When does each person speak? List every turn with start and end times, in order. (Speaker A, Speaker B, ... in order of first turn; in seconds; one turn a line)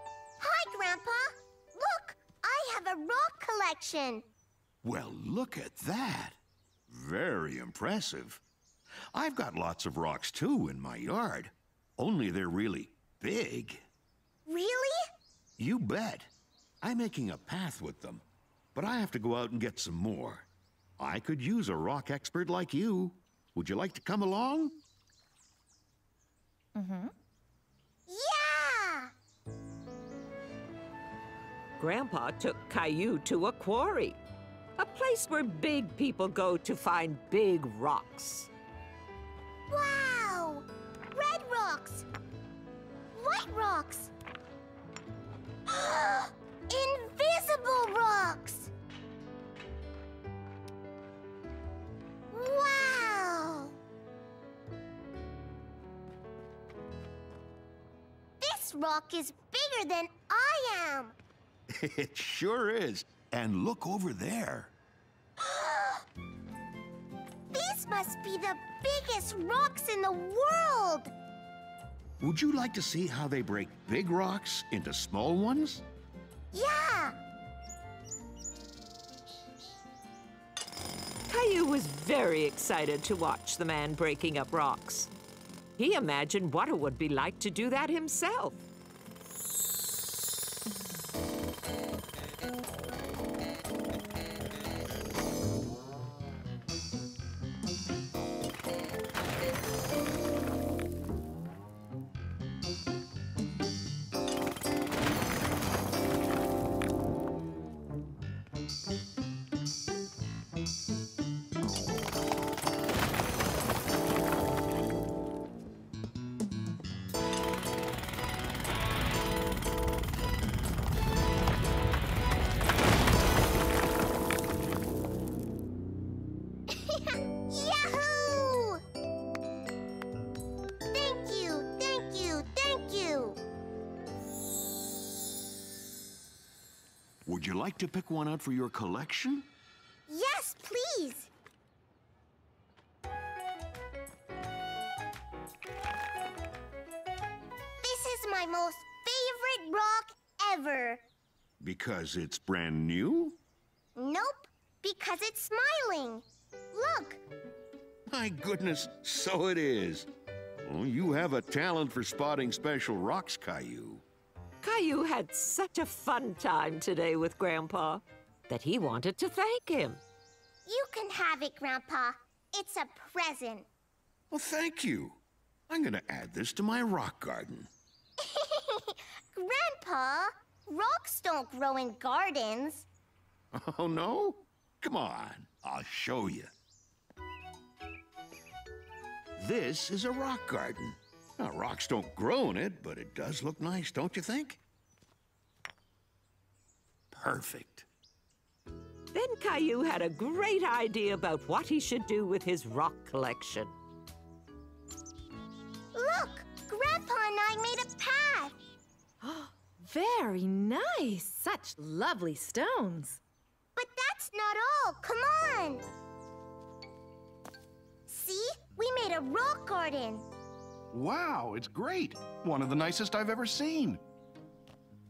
Speaker A: 0.4-4.2
Speaker B: 4.8-6.4
Speaker B: 6.9-8.4
Speaker B: 9.1-13.8
Speaker A: 14.5-15.0
Speaker B: 15.6-18.2
Speaker B: 18.7-20.5
Speaker B: 21.0-24.8
Speaker C: 26.7-27.1
Speaker A: 28.1-29.1
Speaker D: 31.8-34.2
Speaker D: 34.8-38.5
Speaker A: 39.7-42.0
Speaker A: 43.1-44.1
Speaker A: 45.7-48.7
Speaker A: 52.3-53.7
Speaker A: 58.4-61.1
Speaker B: 61.7-64.7
Speaker A: 65.4-66.0
Speaker A: 67.5-71.1
Speaker B: 72.2-75.8
Speaker A: 76.5-77.2
Speaker D: 81.3-85.1
Speaker D: 85.8-88.6
Speaker A: 126.7-128.8
Speaker A: 130.9-133.4
Speaker B: 137.2-139.5
Speaker A: 140.1-141.3
Speaker A: 147.8-151.0
Speaker B: 151.6-153.4
Speaker A: 153.9-157.2
Speaker B: 158.1-160.1
Speaker B: 160.6-164.0
Speaker D: 164.6-170.0
Speaker A: 170.7-173.7
Speaker B: 174.3-177.7
Speaker A: 178.2-182.8
Speaker B: 183.5-186.5
Speaker B: 189.4-194.6
Speaker B: 197.1-197.9
Speaker D: 199.1-203.7
Speaker A: 205.9-208.5
Speaker C: 209.2-213.2
Speaker A: 213.8-215.8
Speaker A: 218.1-220.2
Speaker E: 220.9-224.0